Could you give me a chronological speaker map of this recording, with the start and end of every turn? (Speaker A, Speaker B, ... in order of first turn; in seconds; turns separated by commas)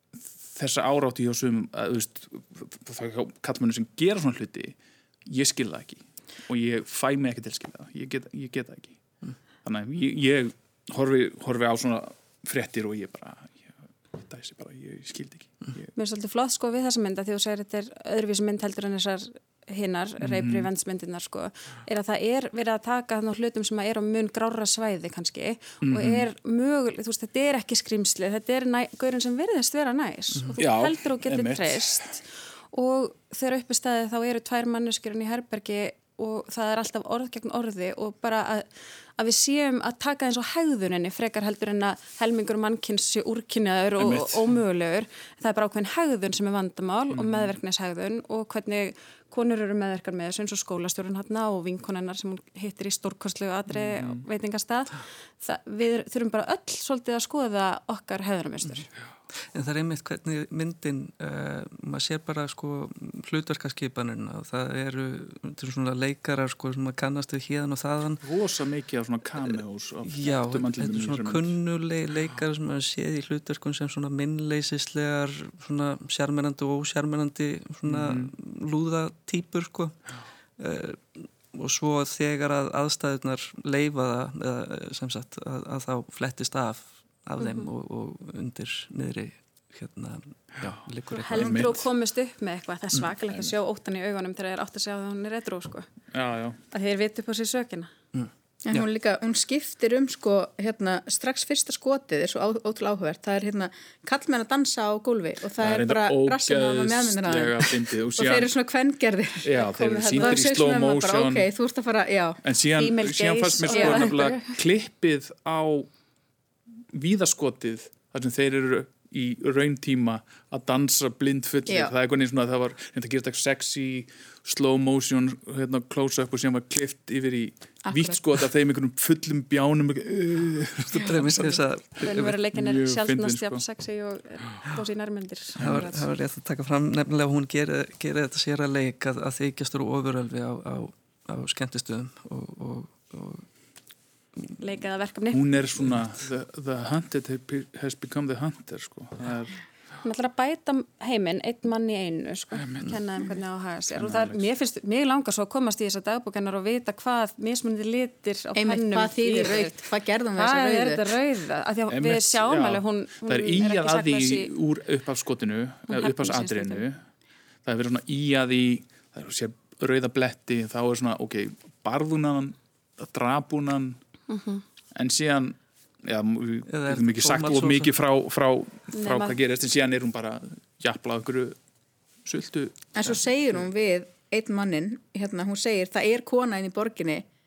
Speaker A: 0.4-9.0, Speaker A: 9.6-15.9, Speaker B: 15.9-58.9, Speaker A: 20.2-20.7, Speaker A: 25.8-26.3, Speaker A: 30.6-32.1, Speaker A: 44.0-44.6, Speaker A: 47.1-47.5, Speaker A: 53.7-54.2, Speaker C: 59.5-68.2, Speaker A: 68.2-71.5, Speaker C: 70.0-80.0, Speaker A: 77.8-78.3, Speaker C: 80.6-91.7, Speaker B: 87.4-87.7, Speaker B: 91.1-95.9, Speaker A: 91.3-91.9, Speaker A: 96.1-96.6, Speaker B: 96.7-97.9, Speaker C: 98.1-98.9, Speaker D: 98.6-109.5, Speaker A: 105.6-108.5, Speaker A: 109.4-111.5, Speaker B: 109.5-110.5, Speaker D: 110.2-112.4, Speaker A: 112.4-115.9, Speaker B: 112.8-114.6, Speaker D: 113.7-114.0, Speaker A: 116.9-133.6, Speaker D: 121.7-121.9, Speaker D: 127.8-128.2, Speaker C: 130.9-132.4, Speaker B: 132.0-136.1, Speaker A: 135.6-135.9, Speaker C: 135.6-143.4, Speaker B: 144.6-145.5, Speaker A: 145.3-149.6, Speaker B: 150.0-164.5, Speaker A: 152.6-152.9, Speaker A: 153.9-154.5, Speaker D: 158.6-161.1, Speaker A: 161.9-167.0, Speaker B: 165.9-166.8, Speaker A: 167.6-174.0, Speaker B: 174.3-174.6, Speaker A: 174.9-181.6, Speaker C: 176.7-177.9, Speaker B: 178.9-179.4, Speaker A: 182.2-183.2, Speaker D: 182.9-187.2